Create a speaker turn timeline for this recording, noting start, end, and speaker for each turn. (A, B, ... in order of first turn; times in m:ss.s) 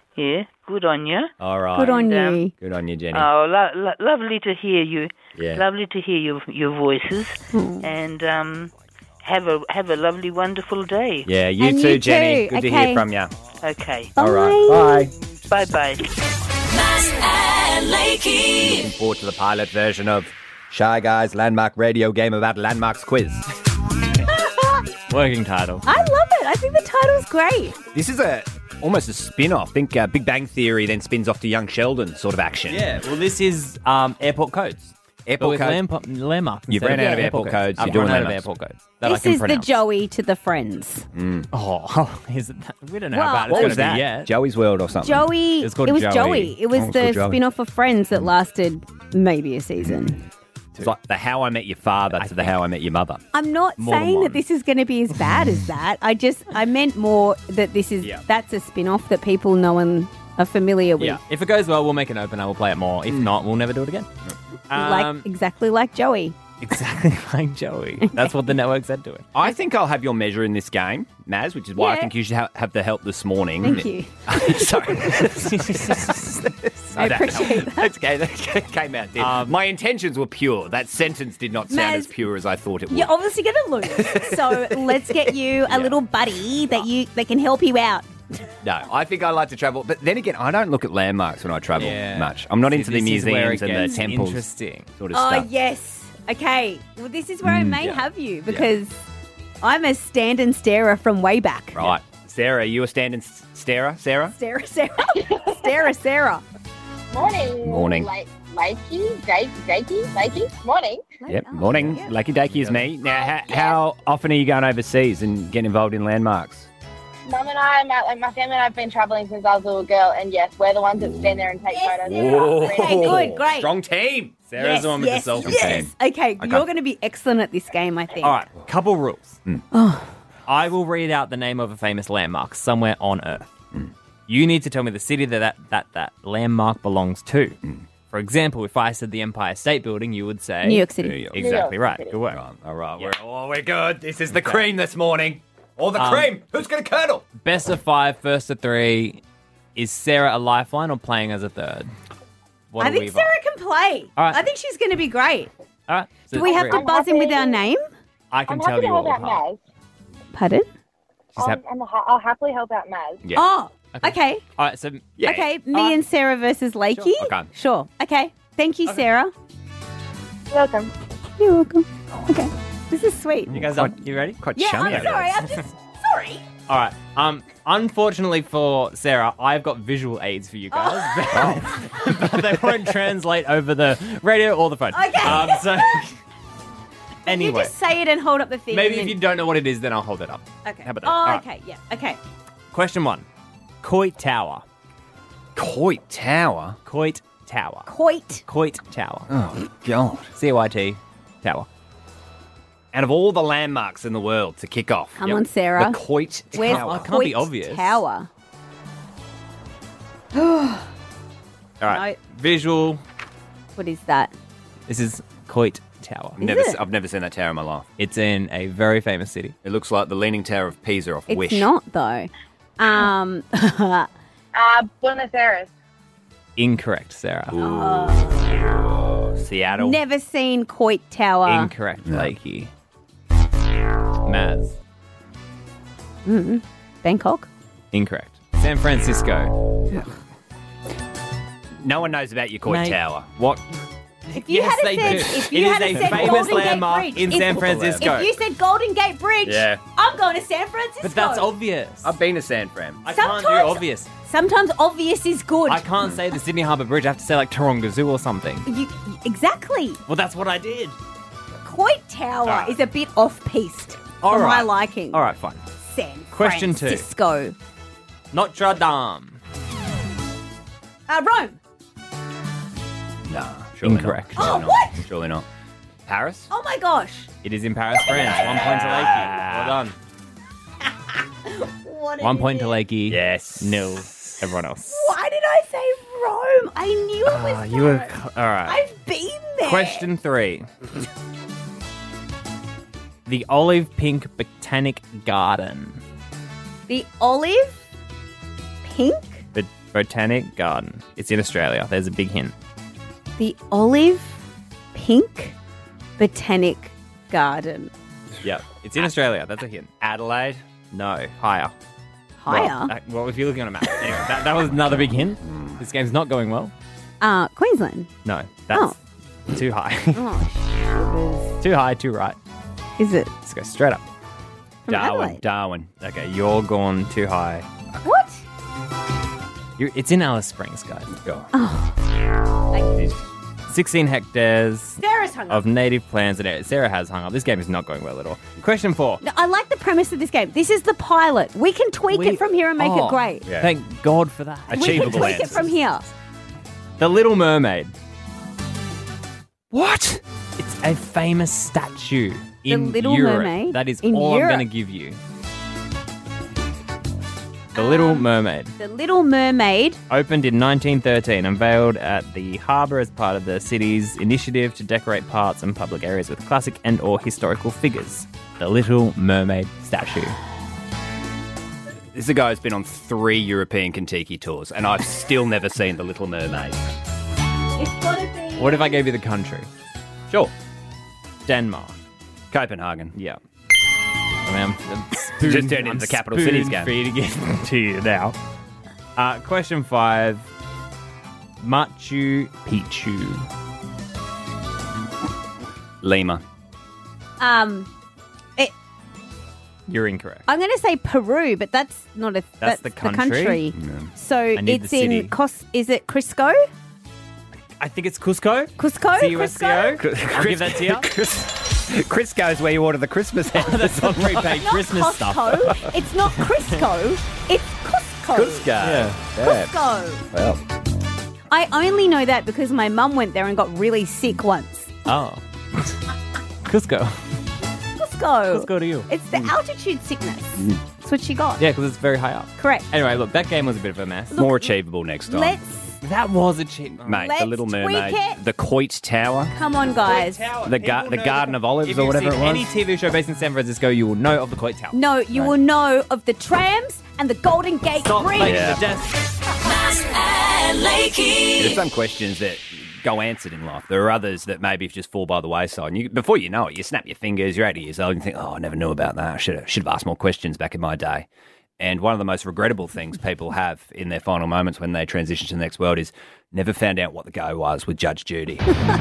0:00.2-0:02.4 A
0:01.4-0:02.0 B
0:01.8-0:02.5 C
0:02.6-0:03.3 B
0:03.1-0:11.3 A
0:05.4-0:05.6 B
0:07.5-0:07.9 C
0:11.3-0:13.3 B
0:11.6-0:13.0 C
0:13.6-0:14.1 A
0:14.2-0:15.1 C
0:14.2-0:15.2 B
0:15.5-0:16.1 A
0:16.7-0:18.8 D
0:18.6-0:23.5 B
0:24.4-0:24.8 C
0:25.1-0:25.9 E
0:25.8-0:27.8 C
0:27.9-0:32.9 B
0:32.7-0:39.8 E
0:35.3-0:35.8 B
0:36.7-0:38.5 B
0:36.9-0:37.3 C
0:39.0-0:41.1 C
0:41.1-0:41.5 B
0:41.5-0:44.3 E
0:43.1-0:44.0 C
0:43.5-0:45.3 B
0:45.0-0:50.2 C
0:45.6-0:46.6 E
0:46.7-0:47.4 B
0:50.8-0:53.2 B
0:52.2-0:52.6 E
0:53.3-1:01.2 C
0:53.8-0:54.4 E
1:01.1-1:04.1 E
1:04.7-1:05.3 E
1:04.7-1:06.4 C
1:06.6-1:09.3 E
1:08.0-1:08.4 C
1:09.4-1:23.1 B
1:11.8-1:12.1 C
1:13.6-1:15.3 C
1:15.4-1:16.5 E
1:17.0-1:17.9 C
1:19.2-1:19.5 E
1:21.7-1:22.1 C
1:22.9-1:28.1 C
1:23.8-1:26.0 B
1:28.6-1:35.5 B
1:31.8-1:34.9 E
1:35.1-1:39.0 C
1:37.4-1:38.7 B
1:39.6-1:41.8 C
1:41.8-1:44.4 B
1:44.4-1:46.4 C
1:45.2-1:45.7 F
1:47.1-1:51.0 F
1:47.6-1:48.1 B
1:51.2-1:52.2 C
1:51.3-1:56.7 B
1:53.1-1:53.8 F
1:57.3-2:03.3 F
2:01.0-2:01.5 B
2:01.7-2:03.7 C
2:02.0-2:04.4 B
2:04.5-2:05.8 E
2:04.6-2:08.4 C
2:05.3-2:06.6 B
2:08.2-2:09.4 E
2:09.7-2:10.1 C
2:10.5-2:13.5 E
2:14.3-2:17.6 E
2:18.1-2:22.4 E
2:20.6-2:21.3 C
2:21.0-2:21.7 B
2:21.4-2:22.2 F
2:22.3-2:27.3 B
2:26.0-2:26.3 E
2:27.4-2:29.2 E
2:29.8-2:31.9 E
2:32.7-2:33.3 E
2:32.8-2:35.5 C
2:34.2-2:34.4 E
2:35.9-2:36.8 E
2:36.3-2:37.8 C
2:36.4-2:37.6 F
2:38.3-2:39.4 E
2:38.5-2:39.6 F
2:40.3-2:40.7 C
2:41.4-2:43.2 F
2:43.3-2:44.4 C
2:44.0-2:45.2 E
2:45.2-2:45.5 B
2:45.2-2:49.3 C
2:45.7-2:46.0 E
2:47.0-2:47.5 B
2:50.5-2:50.9 F
2:51.4-2:53.6 C
2:53.5-2:55.4 B
2:53.5-2:55.6 E
2:54.6-2:56.4 C
2:56.7-3:06.2 E
3:00.7-3:01.7 C
3:01.4-3:01.7 B
3:04.9-3:06.0 C
3:07.3-3:07.7 E
3:07.3-3:09.3 C
3:08.7-3:11.4 E
3:10.6-3:12.2 C
3:12.7-3:13.3 E
3:13.8-3:14.6 E
3:15.6-3:16.8 B
3:16.9-3:17.9 E
3:17.9-3:18.4 C
3:18.5-3:19.3 E
3:19.3-3:20.3 B
3:20.4-3:21.7 E
3:22.9-3:27.1 B
3:25.2-3:26.0 C
3:26.5-3:28.3 C
3:26.6-3:28.0 E
3:30.3-3:30.9 C
3:31.8-3:33.0 E
3:31.8-3:32.2 C
3:33.8-3:34.3 C
3:34.9-3:36.4 E
3:36.4-3:37.9 B
3:36.4-3:36.8 C
3:38.0-3:39.5 E
3:39.6-3:41.7 B
3:41.3-3:44.1 C
3:44.6-3:45.7 F
3:46.6-3:47.6 E
3:47.5-3:50.0 B
3:47.6-3:48.6 C
3:49.8-3:51.7 C
3:51.4-3:52.7 E
3:52.0-3:52.3 B
3:54.2-3:54.8 E
3:56.2-3:57.5 C
3:57.9-3:59.6 E
4:01.8-4:03.4 B
4:02.7-4:03.6 E
4:04.3-4:08.3 E
4:04.3-4:11.5 C
4:07.5-4:08.1 B
4:09.4-4:09.8 B
4:11.0-4:12.1 E
4:12.0-4:13.0 B
4:13.0-4:14.1 E
4:13.1-4:15.9 C
4:15.7-4:18.7 E
4:18.7-4:20.0 C
4:20.1-4:21.0 E
4:21.6-4:25.3 C
4:22.5-4:22.8 E
4:24.2-4:25.6 E
4:25.9-4:27.6 C
4:26.3-4:27.1 E
4:28.3-4:29.4 E
4:31.1-4:31.6 C
4:33.3-4:35.5 B
4:33.8-4:34.6 E
4:34.4-4:35.0 C
4:36.1-4:36.5 B
4:36.5-4:37.3 C
4:37.4-4:39.9 E
4:38.1-4:39.9 B
4:41.4-4:42.8 C
4:42.2-4:45.1 E
4:43.1-4:44.5 B
4:44.9-4:48.1 C
4:47.2-4:48.8 E
4:48.6-4:50.1 C
4:49.6-4:50.7 E
4:53.3-4:56.0 E
4:56.9-4:57.8 C
4:58.8-4:59.4 C
4:59.5-5:02.5 E
5:03.4-5:04.4 C
5:04.9-5:05.6 C
5:06.2-5:07.9 C
5:08.4-5:09.9 E
5:10.0-5:10.6 B
5:10.9-5:11.7 E
5:12.4-5:13.0 C
5:12.5-5:16.7 E
5:14.8-5:15.8 B
5:17.2-5:18.1 C
5:18.2-5:19.0 E
5:18.7-5:19.0 C
5:19.5-5:20.2 E
5:20.1-5:21.6 C
5:21.6-5:22.4 E
5:23.0-5:23.3 C
5:23.4-5:24.0 E
5:24.9-5:25.4 C
5:24.9-5:26.0 B
5:26.0-5:27.7 E
5:28.0-5:28.4 C
5:29.8-5:31.2 E
5:31.2-5:31.5 B
5:31.5-5:32.0 C
5:33.7-5:39.2 E
5:35.0-5:35.7 C
5:39.2-5:43.5 C
5:42.1-5:45.7 E
5:43.5-5:43.8 B
5:44.7-5:45.7 B
5:44.7-5:46.1 C
5:47.0-5:47.9 E
5:49.7-5:50.2 B
5:50.6-5:55.2 E
5:52.7-5:54.7 C
5:57.8-5:58.7 E
5:57.8-6:00.0 C
6:00.1-6:10.4 E
6:12.1-6:16.9 B
6:17.8-6:19.0 C
6:18.6-6:19.7 E
6:21.5-6:22.0 E
6:22.5-6:23.2 B
6:23.1-6:23.4 E
6:24.4-6:28.4 E
6:25.4-6:26.9 B
6:29.2-6:30.5 E
6:31.6-6:33.5 E
6:36.0-6:36.4 B
6:37.4-6:37.9 C
6:39.9-6:40.4 E
6:40.5-6:46.7 C
6:42.6-6:43.6 E
6:43.8-6:44.1 B
6:44.6-6:45.3 E
6:47.8-6:51.1 E
6:48.8-6:50.0 C
6:50.0-6:54.6 B
6:53.5-6:55.8 E
6:54.5-6:58.7 C
6:58.3-6:59.8 B
6:58.8-6:59.2 E
6:59.4-7:00.2 C
7:00.3-7:00.6 B
7:01.5-7:04.9 C
7:05.1-7:06.0 E
7:06.6-7:07.2 E
7:08.0-7:11.6 C
7:08.5-7:09.1 E
7:11.6-7:14.4 E
7:12.6-7:12.9 C
7:14.3-7:14.7 C
7:14.3-7:15.6 B
7:15.3-7:16.0 C
7:16.0-7:17.2 E
7:17.0-7:19.5 B
7:17.1-7:18.4 C
7:19.5-7:20.5 C
7:19.9-7:25.0 E
7:20.6-7:22.7 B
7:24.9-7:28.7 C
7:28.0-7:29.2 E
7:28.4-7:28.9 B
7:29.7-7:31.8 D
7:31.6-7:41.3 B
7:41.8-7:48.7 B